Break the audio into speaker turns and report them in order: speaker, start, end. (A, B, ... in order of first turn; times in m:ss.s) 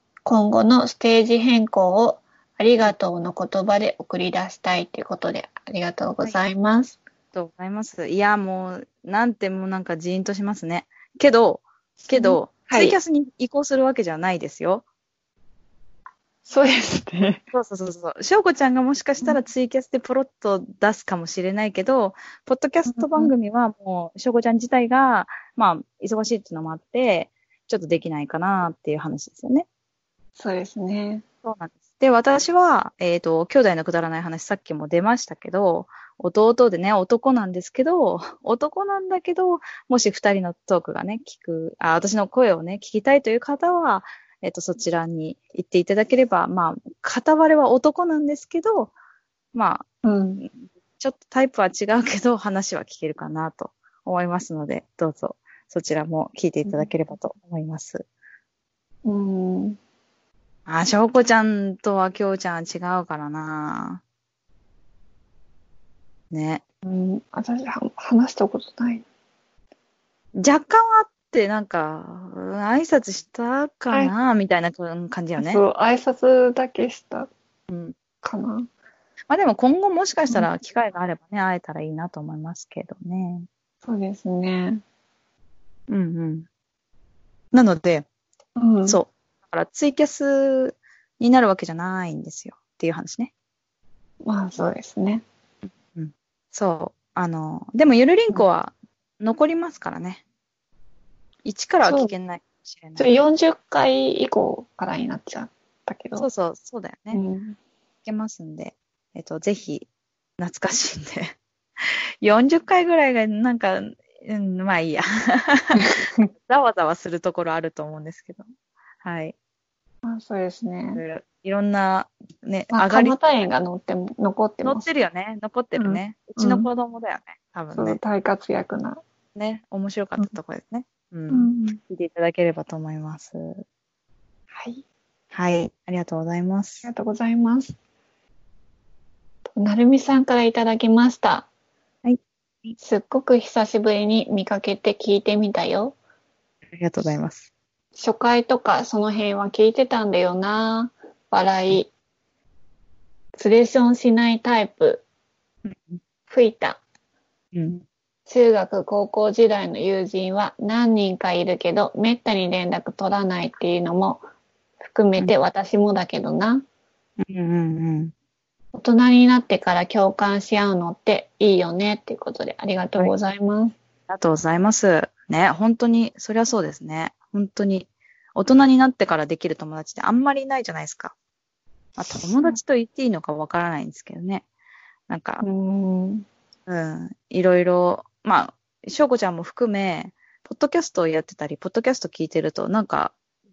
0:00.2-0:07.0 A
0:07.3-0:14.8 B
0:12.1-0:13.0 A
0:16.4-0:17.4 A
0:17.5-0:29.7 B
0:22.9-0:23.3 A
0:30.4-0:31.2 A
0:31.4-0:48.9 B
0:49.5-0:49.9 B
0:50.0-0:50.4 A
0:50.4-0:58.1 B
0:59.0-0:59.8 A
1:00.7-1:04.0 B
1:06.3-1:06.6 B
1:06.8-1:09.0 A
1:10.4-1:15.6 B
1:15.4-1:17.3 A
1:17.7-1:18.0 B
1:18.2-1:18.7 A
1:19.3-1:23.5 B
1:23.8-1:24.8 A
1:25.9-1:26.5 B
1:27.5-1:28.1 B
1:28.6-1:29.0 A
1:28.9-1:33.3 B
1:34.2-1:35.2 A
1:35.8-1:40.2 B
1:41.4-1:43.1 B
1:41.8-1:42.1 A
1:43.0-1:46.3 A
1:46.2-1:47.2 B
1:47.1-1:47.6 A
1:48.0-1:49.9 B
1:50.4-1:51.4 B
1:52.2-1:55.9 B
1:55.8-1:56.3 A
1:56.5-1:58.5 B
1:59.0-1:59.4 B
2:00.0-2:01.0 A
2:01.0-2:03.2 B
2:02.7-2:04.9 A
2:04.6-2:08.0 B
2:05.8-2:06.7 A
2:07.7-2:09.0 A
2:09.4-2:13.6 B
2:11.3-2:11.8 A
2:14.5-2:14.8 A
2:15.3-2:16.9 B
2:16.8-2:17.8 A
2:19.5-2:21.5 A
2:22.0-2:22.8 B
2:22.8-2:26.0 A
2:26.7-2:27.5 B
2:28.0-2:31.9 A
2:33.4-2:35.0 A
2:35.6-2:36.0 B
2:36.3-2:36.8 A
2:37.5-2:37.8 B
2:38.3-2:44.2 A
2:44.8-2:46.6 A
2:47.2-2:48.1 B
2:48.7-2:53.8 A
2:54.1-3:01.1 B
3:02.0-3:04.4 B
3:02.2-3:02.6 A
3:05.1-3:05.4 B
3:05.4-3:06.3 A
3:06.7-3:13.2 B